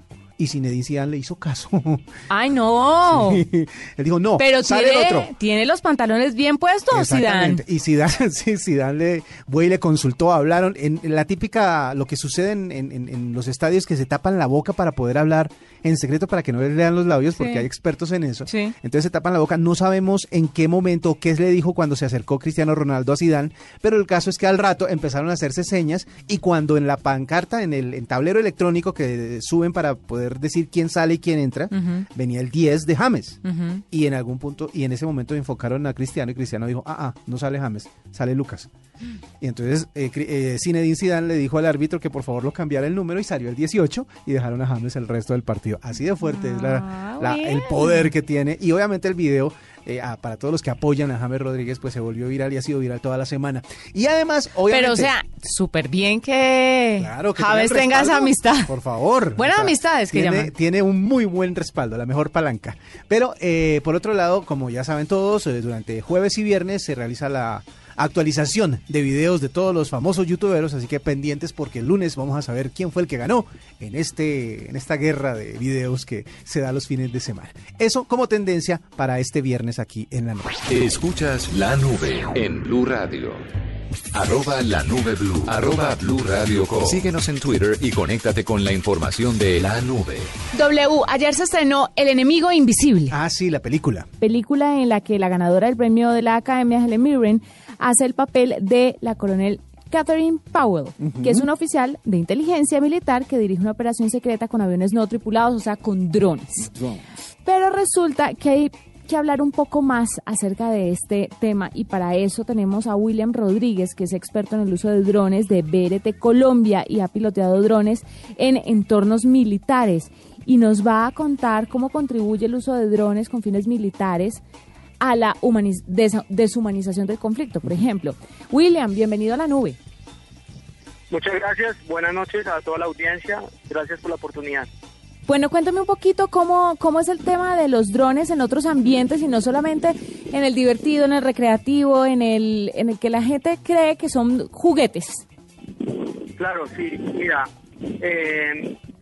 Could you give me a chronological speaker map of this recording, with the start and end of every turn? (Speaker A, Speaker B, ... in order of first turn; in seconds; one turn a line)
Speaker A: 0.4-2.1
Speaker B: 2.3-3.5
Speaker A: 3.1-5.3
Speaker B: 4.4-7.6
Speaker A: 6.9-38.7
Speaker B: 17.4-17.6
Speaker B: 18.5-18.8
Speaker B: 31.7-32.0
Speaker B: 33.5-33.8
Speaker A: 39.4-55.1
Speaker B: 46.2-48.1
Speaker B: 54.7-58.7
Speaker A: 57.0-80.6
Speaker B: 59.4-60.5
Speaker C: 80.7-83.5
Speaker C: 84.1-90.3
Speaker B: 90.5-93.2
Speaker A: 93.1-94.1
Speaker B: 94.2-106.7
Speaker A: 101.0-101.5
Speaker A: 106.6-107.0
Speaker B: 107.4-124.4
Speaker B: 125.0-129.8
Speaker D: 131.1-134.7
Speaker B: 135.3-145.2
Speaker D: 146.4-147.5
Speaker D: 148.0-148.8